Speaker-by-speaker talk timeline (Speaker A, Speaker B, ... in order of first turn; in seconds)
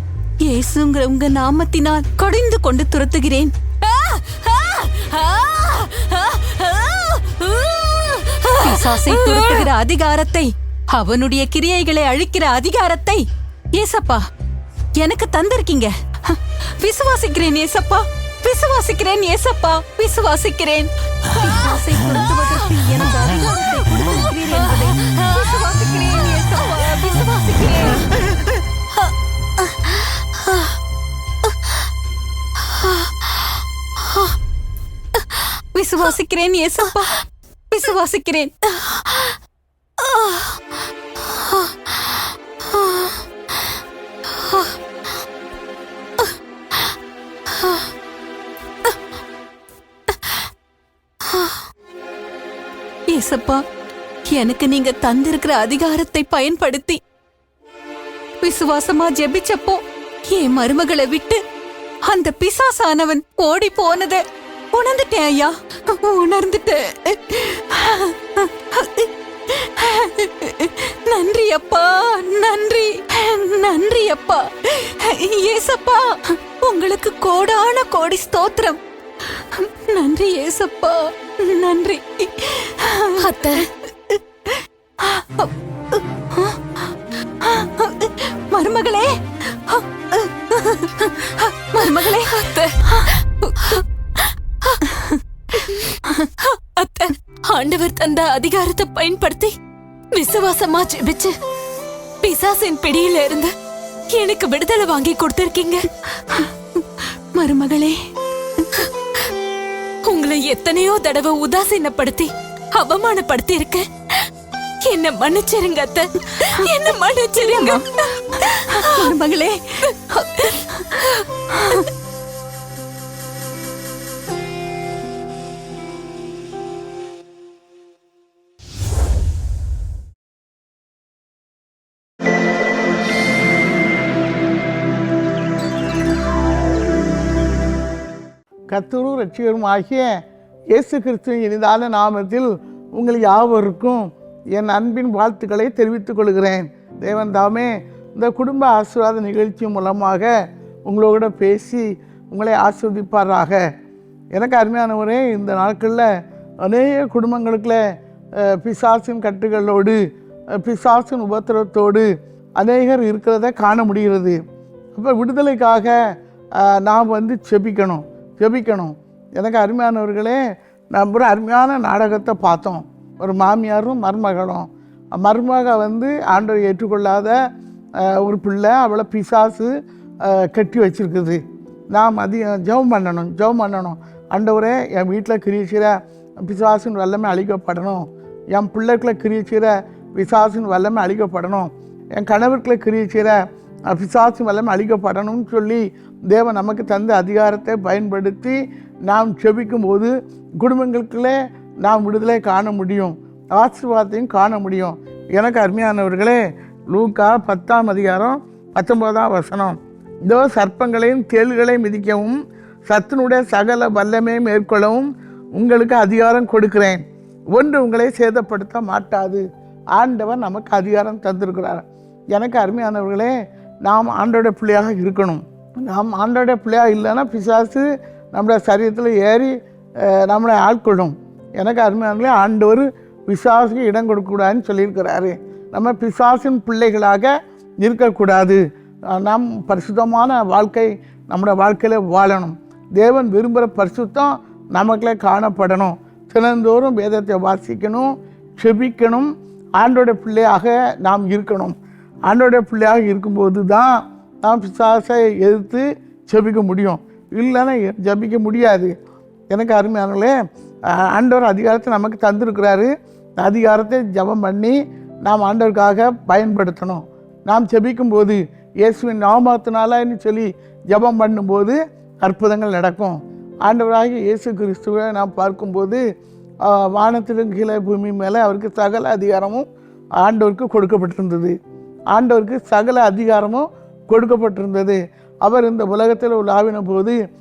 Speaker A: 0.5-3.5, 8.6-14.2, 15.0-20.9, 21.4-28.0, 35.8-38.5, 53.1-53.6, 54.3-57.0, 58.4-61.4, 62.1-78.8, 79.5-83.4, 84.1-85.5, 86.3-86.8, 87.4-89.1, 89.7-92.5, 107.3-108.0, 117.5-117.8, 118.5-119.6, 120.2-121.8
Speaker B: 3.8-9.7, 24.3-25.4, 26.4-26.9, 27.6-28.0, 83.2-83.7, 91.8-92.9, 96.8-99.5, 100.1-101.3, 102.2-103.5, 104.1-105.9, 110.1-114.3, 114.8-117.8, 118.5-119.1
Speaker C: 138.7-140.1, 140.7-150.3, 150.9-153.6, 154.3-156.1, 156.6-157.8, 158.4-160.0, 160.6-162.1, 162.6-164.4, 164.9-165.9, 166.6-170.4, 170.9-177.3, 178.0-179.7, 180.2-181.4, 181.9-193.4, 193.9-206.4, 206.9-217.0, 217.5-219.4, 219.9-223.3, 223.8-238.6, 239.1-251.8, 252.3-258.9, 259.5-260.4, 261.1-262.9, 263.4-276.0, 276.6-279.6, 280.2-281.6, 282.1-287.2